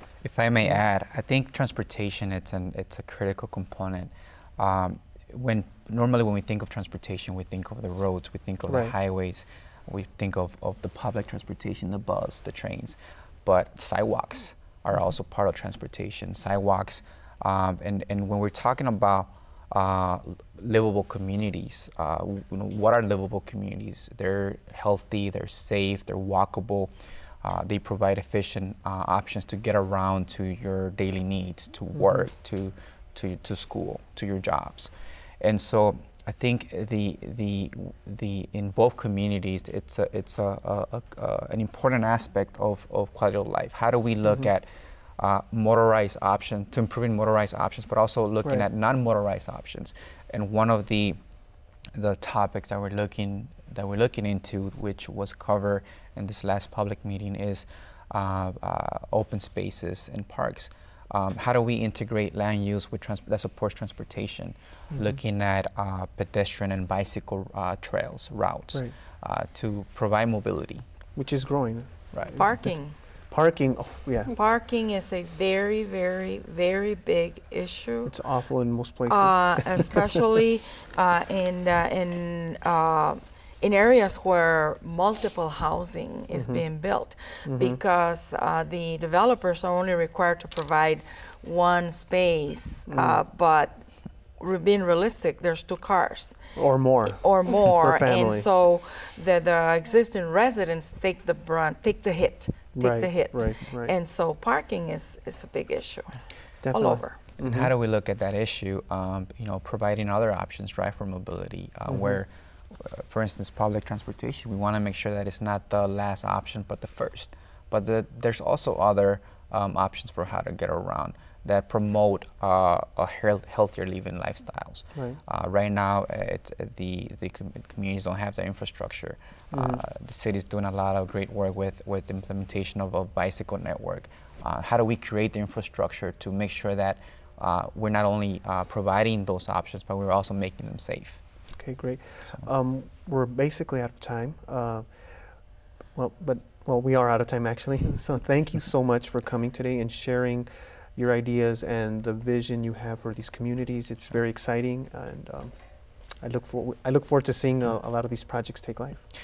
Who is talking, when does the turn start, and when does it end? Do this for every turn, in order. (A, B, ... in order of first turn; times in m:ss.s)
0:00.2-0:26.9 A
0:08.7-0:08.9 B
0:27.4-0:44.7 A
0:32.0-0:32.2 B
0:45.2-0:51.2 A
0:51.9-1:10.8 A
1:11.2-1:12.6 B
1:12.3-1:13.0 C
1:13.3-1:14.3 B
1:14.3-1:18.1 C
1:18.0-1:20.2 B
1:19.1-1:33.8 C
1:26.3-1:26.6 B
1:27.4-1:27.8 B
1:32.9-1:33.2 B
1:34.4-1:36.4 C
1:36.6-1:38.5 B
1:37.1-1:46.2 C
1:42.7-1:43.9 B
1:46.6-1:47.7 B
1:46.7-1:47.2 C
1:47.4-2:21.2 A
1:51.9-1:52.2 B
2:04.9-2:05.2 B
2:09.5-2:09.8 B
2:21.6-2:24.9 B
2:25.9-2:35.5 B
2:36.2-2:39.0 B